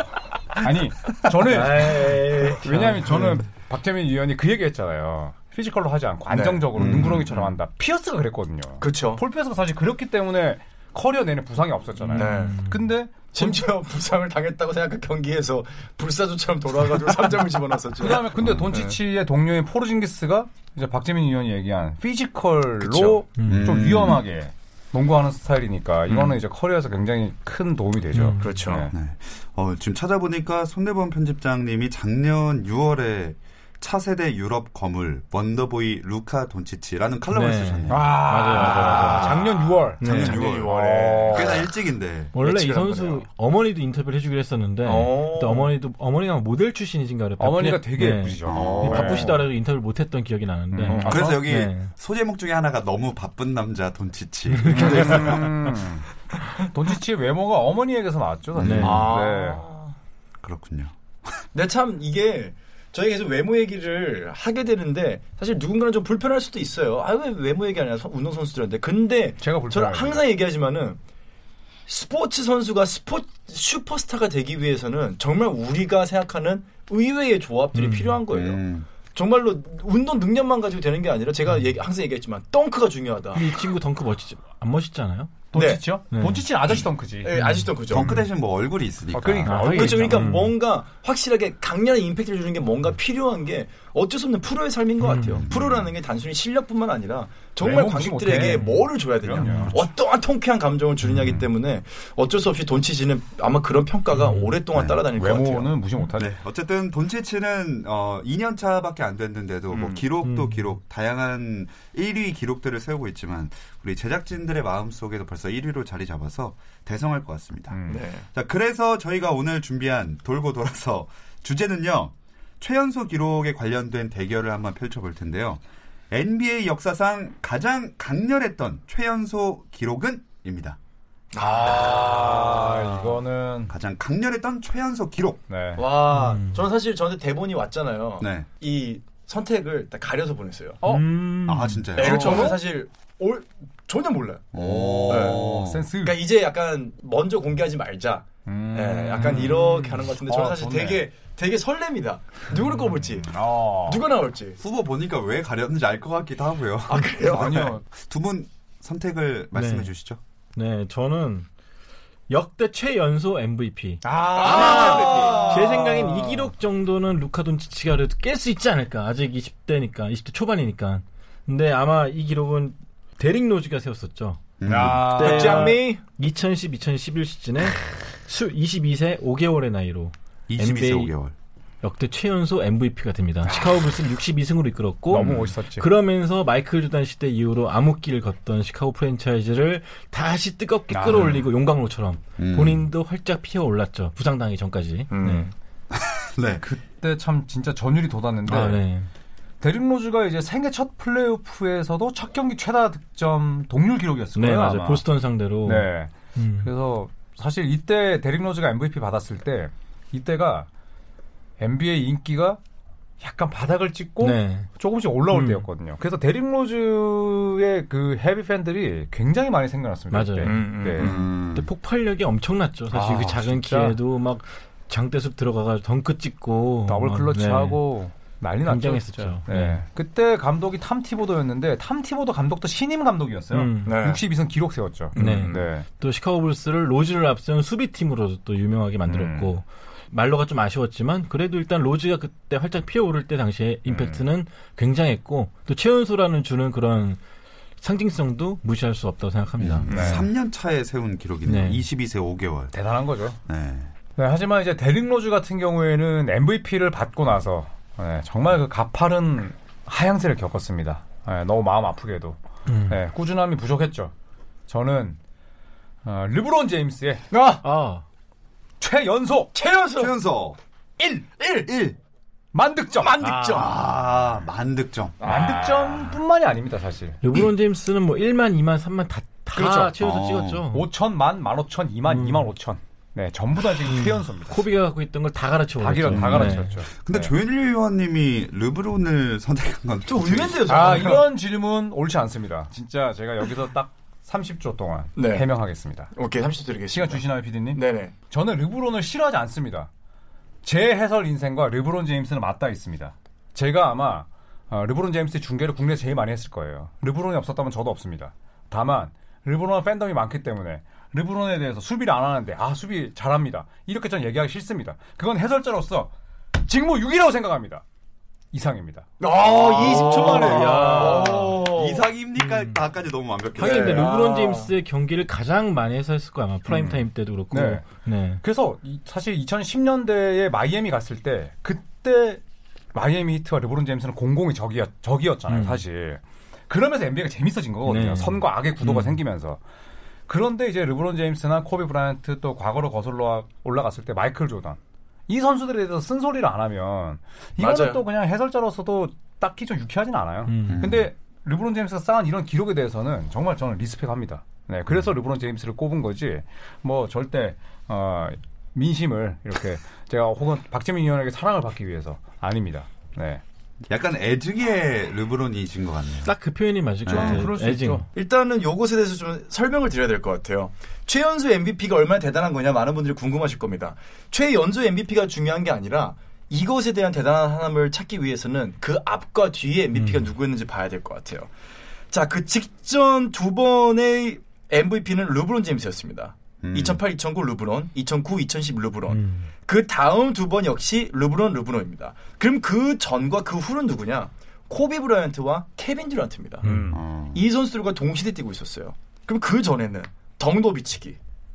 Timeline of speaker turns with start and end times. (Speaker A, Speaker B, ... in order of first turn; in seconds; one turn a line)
Speaker A: 0.6-13.7
Speaker B: 1.5-3.3
Speaker C: 1.6-3.0
Speaker B: 6.3-7.5
Speaker D: 6.8-7.3
Speaker B: 8.8-9.2
Speaker B: 12.1-12.6
Speaker C: 12.1-12.8
Speaker B: 13.3-19.0
Speaker A: 18.0-28.9
Speaker B: 22.8-23.2
Speaker C: 23.4-23.8
Speaker D: 23.5-24.2
Speaker B: 26.1-26.4
Speaker C: 28.1-28.6
Speaker B: 28.4-28.9
Speaker D: 28.9-38.3
Speaker C: 37.3-39.4
Speaker A: 37.9-41.7
Speaker B: 38.5-41.7
Speaker D: 40.0-42.3
Speaker C: 40.0-40.4
Speaker C: 42.3-51.9
Speaker B: 42.4-43.2
Speaker B: 44.9-45.7
Speaker A: 47.4-49.4
Speaker D: 48.5-49.3
Speaker B: 48.5-49.4
Speaker A: 50.7-51.5
Speaker B: 50.9-51.3
Speaker D: 51.0-55.8
Speaker C: 54.6-55.0
Speaker A: 54.7-56.1
Speaker B: 54.9-55.2
Speaker A: 56.6-59.6
Speaker D: 58.6-59.1
Speaker C: 58.6-59.1
Speaker B: 58.8-59.9
Speaker D: 60.4-60.9
Speaker B: 61.5-71.0
Speaker A: 69.4-70.2
Speaker B: 71.9-83.5
Speaker C: 77.7-78.2
Speaker D: 78.3-78.9
Speaker C: 83.3-85.4
Speaker A: 85.5-87.4
Speaker B: 85.5-85.8
Speaker C: 86.1-86.5
Speaker B: 87.2-88.2
Speaker C: 87.3-88.2
Speaker D: 87.9-89.7
Speaker A: 89.1-90.3
Speaker C: 89.5-90.5
Speaker B: 89.6-105.7
Speaker C: 95.0-95.5
Speaker D: 95.4-95.9
Speaker A: 97.6-99.8
Speaker C: 99.4-99.7
Speaker A: 101.1-101.5
Speaker C: 104.1-104.6
Speaker D: 104.7-105.0
Speaker A: 105.1-106.3
Speaker D: 106.2-117.8
Speaker B: 109.7-110.0
Speaker C: 110.2-110.7
Speaker A: 117.7-118.0
Speaker B: 117.9-118.3
Speaker D: 118.3-130.8
Speaker B: 131.3-133.2
Speaker A: 131.4-133.7
Speaker D: 133.7-135.4
Speaker A: 135.5-135.8
Speaker B: 135.8-140.8
Speaker C: 136.1-136.6
Speaker D: 138.2-138.5
Speaker A: 140.8-142.6
Speaker C: 140.8-141.9
Speaker D: 141.5-142.6
Speaker B: 141.9-144.5
Speaker D: 144.5-145.9
Speaker A: 144.6-146.2
Speaker B: 145.1-145.4
Speaker B: 146.0-154.6
Speaker A: 148.5-151.1
Speaker A: 153.2-154.1
Speaker D: 154.6-160.2
Speaker B: 156.9-157.7
Speaker A: 157.2-157.8
Speaker C: 159.5-159.9
Speaker C: 160.6-161.5
Speaker C: 162.3-181.1
Speaker A: 164.0-166.5
Speaker B: 164.3-165.8
Speaker D: 174.6-175.2
Speaker A: 174.7-175.8
Speaker B: 175.1-176.0
Speaker D: 180.5-181.3
Speaker C: 181.8-195.5
Speaker A: 185.1-185.9
Speaker A: 190.9-191.4
Speaker D: 192.4-192.9
Speaker B: 195.1-195.5
Speaker D: 195.9-196.6
Speaker A: 196.6-198.8
Speaker C: 198.5-199.1
Speaker A: 199.6-205.1
Speaker C: 204.4-206.7
Speaker A: 205.6-210.7
Speaker A: 211.6-212.6
Speaker A: 213.2-221.2
Speaker C: 214.2-214.7
Speaker C: 215.3-215.7
Speaker C: 220.1-220.7
Speaker B: 220.4-221.3
Speaker D: 221.0-221.7
Speaker C: 221.5-227.8
Speaker A: 222.9-224.0
Speaker A: 226.9-235.8
Speaker C: 228.6-229.8
Speaker C: 233.5-234.0
Speaker B: 233.8-234.2
Speaker B: 235.2-235.7
Speaker C: 235.2-247.2
Speaker A: 239.1-239.6
Speaker A: 243.9-244.2
Speaker C: 247.8-249.9
Speaker D: 249.6-252.7
Speaker A: 249.9-250.3
Speaker C: 251.5-251.8
Speaker A: 252.7-253.4
Speaker D: 253.5-253.9
Speaker A: 254.2-262.4
Speaker C: 262.7-263.0
Speaker A: 262.9-264.1
Speaker A: 264.7-265.2
Speaker A: 266.0-267.3
Speaker B: 267.3-267.6
Speaker C: 267.6-268.0
Speaker A: 268.8-269.6
Speaker B: 269.5-270.1
Speaker D: 270.0-270.6
Speaker B: 271.0-271.7
Speaker D: 271.6-272.0
Speaker A: 272.5-273.6
Speaker B: 273.0-273.8
Speaker D: 273.4-275.2
Speaker B: 275.2-276.1
Speaker A: 275.2-277.2
Speaker C: 277.2-280.9
Speaker A: 279.6-279.9
Speaker D: 280.0-280.7
Speaker A: 280.7-284.6
Speaker C: 282.1-282.5
Speaker C: 283.9-286.7
Speaker A: 285.8-287.3
Speaker D: 286.1-290.8
Speaker B: 290.1-291.3
Speaker A: 290.7-296.1
Speaker B: 295.2-295.5
Speaker B: 296.1-298.1
Speaker A: 296.9-299.9
Speaker A: 300.6-317.8
Speaker A: 318.5-319.1
Speaker B: 319.2-322.1
Speaker D: 319.3-324.1
Speaker C: 319.8-321.6
Speaker C: 322.4-322.8
Speaker C: 323.6-328.4
Speaker B: 323.6-324.7
Speaker A: 326.7-327.9
Speaker A: 328.4-332.4
Speaker A: 332.9-339.6
Speaker C: 335.5-335.8
Speaker C: 337.9-339.2
Speaker A: 340.3-363.4
Speaker B: 347.6-348.0
Speaker C: 350.5-350.9
Speaker D: 350.7-351.1
Speaker D: 363.9-366.3
Speaker C: 366.2-368.1
Speaker D: 367.1-367.5
Speaker A: 367.1-368.1
Speaker B: 368.1-381.5
Speaker C: 379.9-380.3
Speaker B: 382.1-396.7
Speaker D: 386.6-387.0
Speaker C: 389.1-389.5
Speaker C: 396.6-397.0
Speaker A: 396.6-397.0
Speaker D: 396.9-397.5
Speaker B: 397.3-401.2